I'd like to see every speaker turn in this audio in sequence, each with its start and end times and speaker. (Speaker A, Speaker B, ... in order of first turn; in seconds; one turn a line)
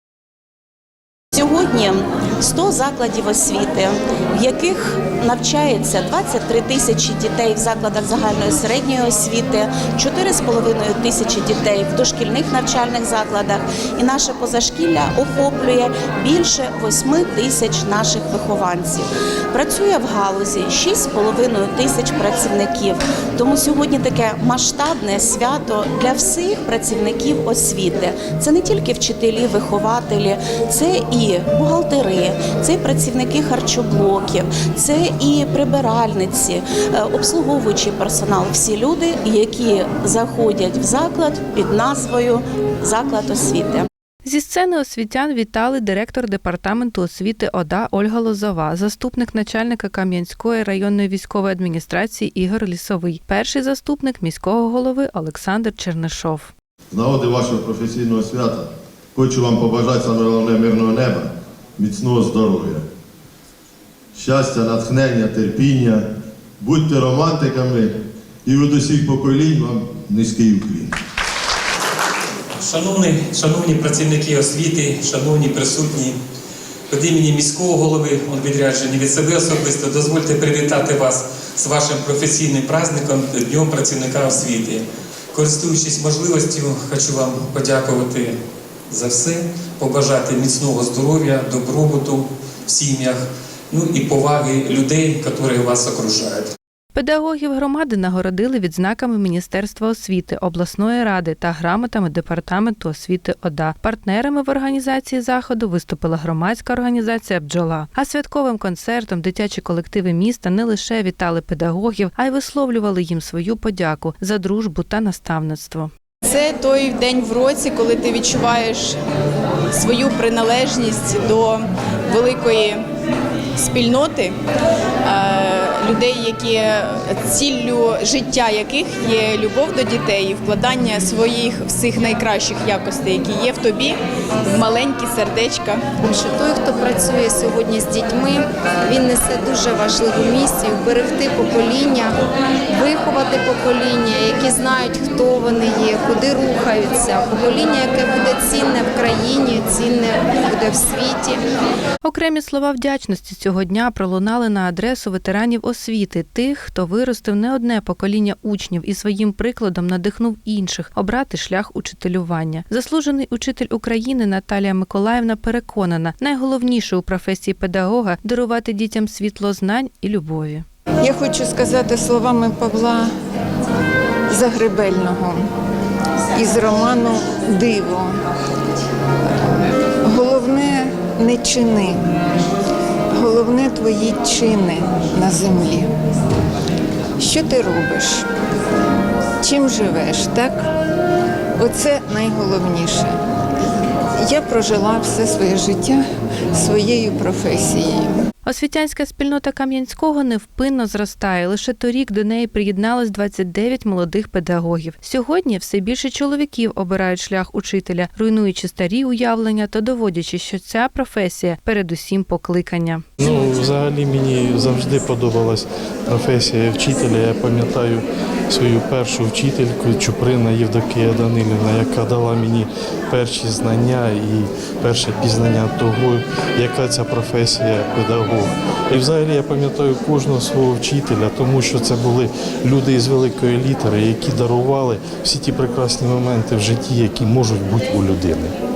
Speaker A: 1.3-43.9
Speaker B: 44.2-56.5
Speaker C: 56.9-62.8
Speaker C: 64.1-66.1
Speaker C: 66.6-67.9
Speaker C: 68.4-70.9
Speaker D: 72.6-76.2
Speaker D: 76.9-88.3
Speaker D: 88.9-96.5
Speaker B: 96.9-115.9
Speaker E: 116.2-119.0
Speaker E: 119.7-122.8
Speaker E: 123.6-124.3
Speaker E: 125.0-135.8
Speaker F: 136.0-142.2
Speaker F: 142.7-151.4
Speaker B: 152.0-170.6
Speaker G: 171.0-173.1
Speaker G: 174.3-175.5
Speaker G: 176.3-178.2
Speaker G: 179.2-182.0
Speaker G: 183.1-185.9
Speaker G: 187.2-188.2
Speaker G: 189.4-190.7
Speaker G: 191.6-193.2
Speaker G: 194.2-196.0
Speaker G: 196.5-198.2
Speaker B: 198.4-213.0
Speaker H: 213.2-238.5